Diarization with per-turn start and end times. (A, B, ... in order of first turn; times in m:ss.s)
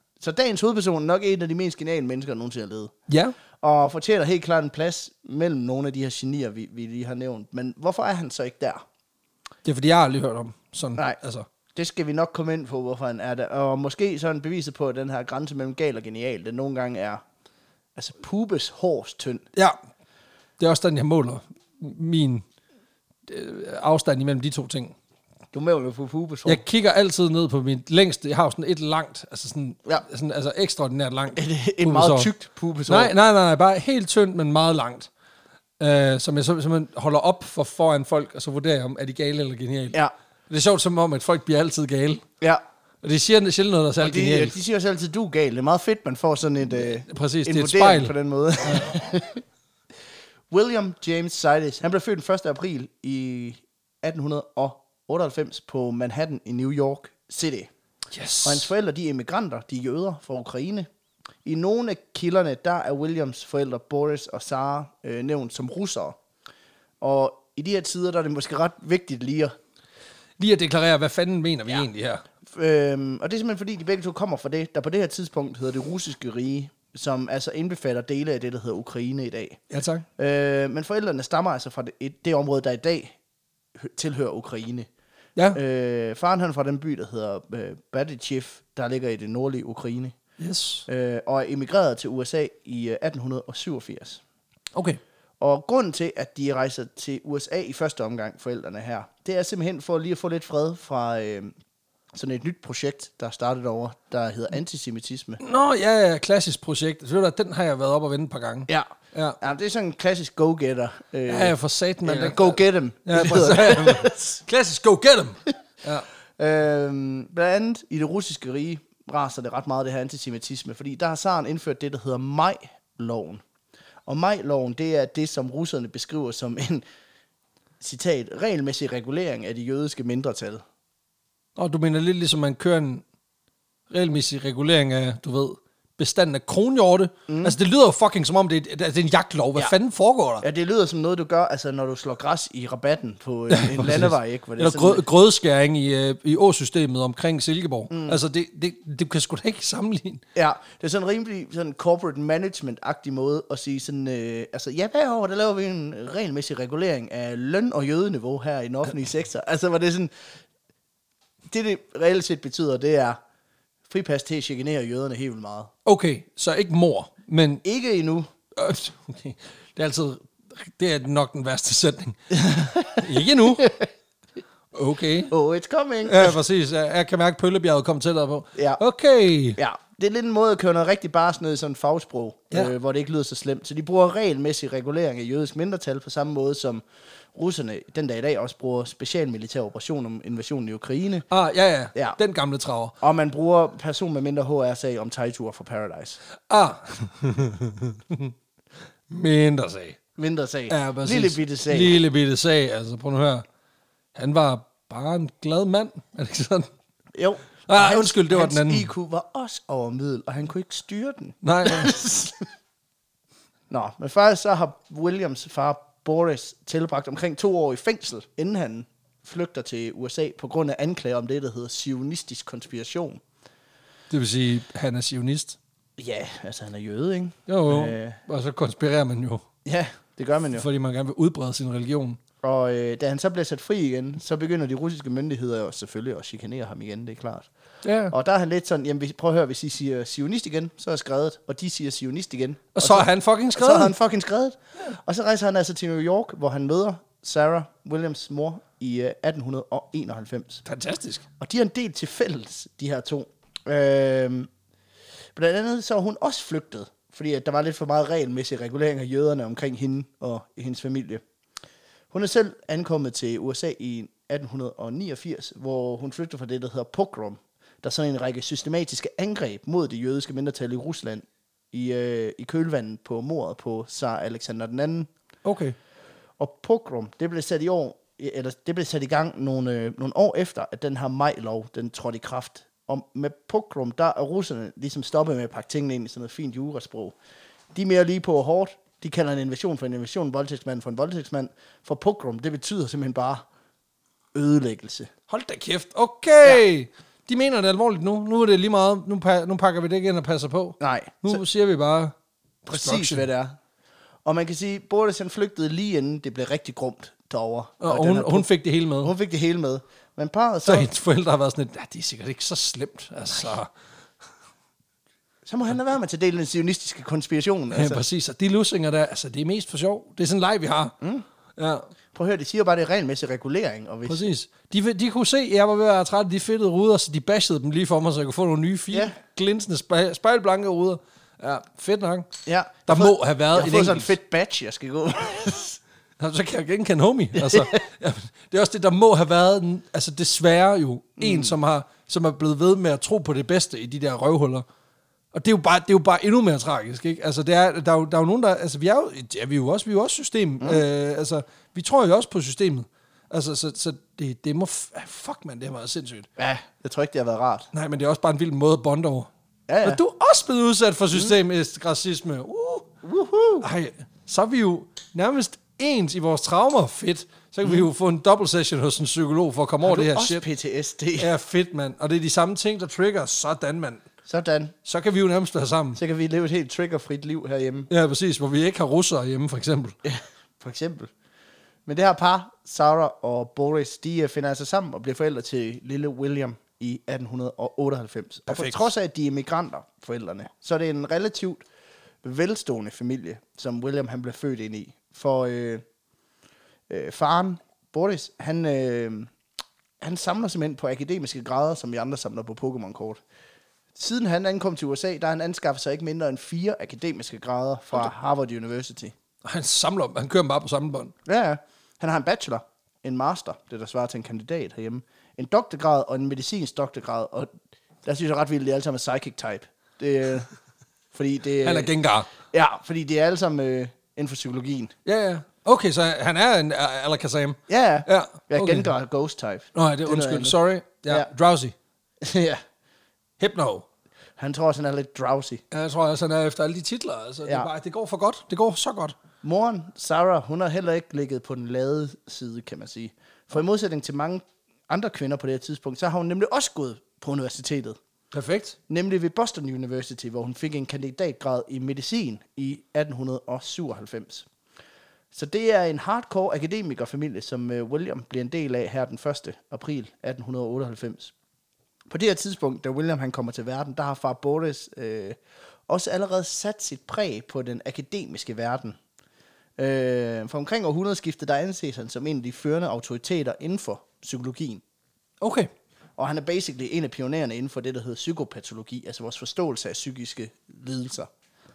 0:00.2-0:02.9 A
0:03.1-0:03.3 B
0:03.6-0:08.8 A
0:09.6-0:11.5 B
0:11.7-0:17.2 A
0:18.0-0:19.4 A
0:20.6-0:22.4 B
0:23.3-0:25.0 B
0:25.5-0:26.6 A
0:26.4-0:32.3 B
0:31.3-0:33.1 A
0:32.9-0:35.1 B
0:35.8-0:42.2 B
0:43.0-0:44.6 B
0:44.0-0:49.4 A
0:46.7-0:48.1 B
0:50.5-0:57.7 A
0:58.1-0:58.7 B
0:58.4-1:00.9 A
1:01.4-1:06.2 A
1:07.0-1:09.5 A
1:10.4-1:12.2 B
1:12.5-1:19.6 A
1:19.7-1:20.0 B
1:20.2-1:23.1 A
1:23.8-1:24.9 A
1:25.5-1:30.2 A
1:30.4-1:30.9 B
1:30.9-1:34.2 A
1:34.7-1:35.0 B
1:35.4-1:41.5 A
1:42.1-1:45.4 A
1:45.4-1:49.4 B
1:48.7-1:54.4 A
1:51.3-1:56.1 B
1:56.4-2:03.4 A
2:04.0-2:06.8 A
2:07.8-2:10.6 A
2:11.6-2:13.0 B
2:13.9-2:20.4 B
2:17.3-2:17.6 A
2:20.4-2:25.0 A
2:23.5-2:30.2 B
2:27.9-2:28.2 A
2:30.3-2:40.1 A
2:41.5-2:43.2 A
2:43.9-2:45.7 A
2:45.8-2:47.6 B
2:47.6-2:48.3 A
2:48.5-2:52.4 B
2:52.3-2:53.9 A
2:52.9-2:53.7 B
2:54.7-2:55.3 B
2:55.3-2:56.4 A
2:56.0-2:59.6 B
2:58.5-2:58.8 A
2:59.6-3:11.3 A
3:11.3-3:12.9 B
3:13.0-3:16.2 A
3:16.5-3:18.3 B
3:19.1-3:20.0 B
3:20.2-3:22.0 A
3:20.7-3:23.4 B
3:24.1-3:26.7 B
3:27.1-3:32.5 A
3:27.7-3:28.9 B
3:31.4-3:32.0 B
3:33.7-3:43.2 A
3:44.1-3:45.6 B
3:46.0-3:48.2 A
3:47.5-3:49.4 B
3:49.6-3:50.6 A
3:50.5-3:52.2 B
3:52.4-3:57.5 A
3:57.8-3:58.1 B
3:58.1-4:10.6 A
4:02.7-4:03.9 B
4:10.6-4:11.2 B
4:11.4-4:14.5 A
4:15.3-4:21.2 A
4:22.1-4:35.1 A
4:35.4-4:35.8 B
4:36.4-4:47.2 A
4:47.7-4:53.4 A
4:54.3-4:55.1 A
4:55.3-5:02.1 B
5:00.8-5:01.4 A
5:02.6-5:03.3 B
5:02.7-5:03.6 A
5:04.2-5:08.5 A
5:07.8-5:09.1 B
5:09.0-5:10.9 A
5:10.6-5:13.7 B
5:15.4-5:18.0 A
5:17.7-5:21.0 B
5:21.6-5:21.9 B
5:22.1-5:24.2 A
5:24.0-5:32.3 B
5:32.4-5:35.8 A
5:32.8-5:34.1 B
5:36.2-5:44.6 B
5:37.4-5:37.6 A
5:41.2-5:41.5 A
5:45.3-5:56.3 B
5:56.4-5:57.7 A
5:57.7-5:59.3 B
5:59.7-6:00.0 A
5:59.8-6:02.9 B
6:03.0-6:03.7 A
6:03.6-6:10.4 B
6:09.8-6:11.3 A
6:11.2-6:14.0 B
6:14.2-6:14.7 A
6:14.8-6:16.0 B
6:16.0-6:17.9 A
6:17.9-6:20.0 B
6:20.0-6:21.1 A
6:21.8-6:31.6 A
6:28.5-6:28.9 B
6:32.2-6:35.8 A
6:36.9-6:39.3 A
6:40.0-6:43.2 A
6:43.9-6:49.1 A
6:49.4-6:51.1 B
6:51.2-6:57.5 A
6:58.0-7:00.5 A
7:01.1-7:01.9 A
7:01.6-7:02.3 B
7:02.4-7:04.9 A
7:05.0-7:08.9 B
7:07.7-7:10.6 A
7:09.7-7:11.7 B
7:12.2-7:12.6 A
7:13.4-7:13.8 B
7:14.4-7:15.6 A
7:15.7-7:19.1 B
7:19.4-7:28.0 A
7:28.3-7:28.8 B
7:28.9-7:34.5 A
7:35.3-7:41.3 A
7:42.1-7:49.0 A
7:49.8-7:54.8 A
7:55.4-7:55.7 B
7:56.2-8:01.3 A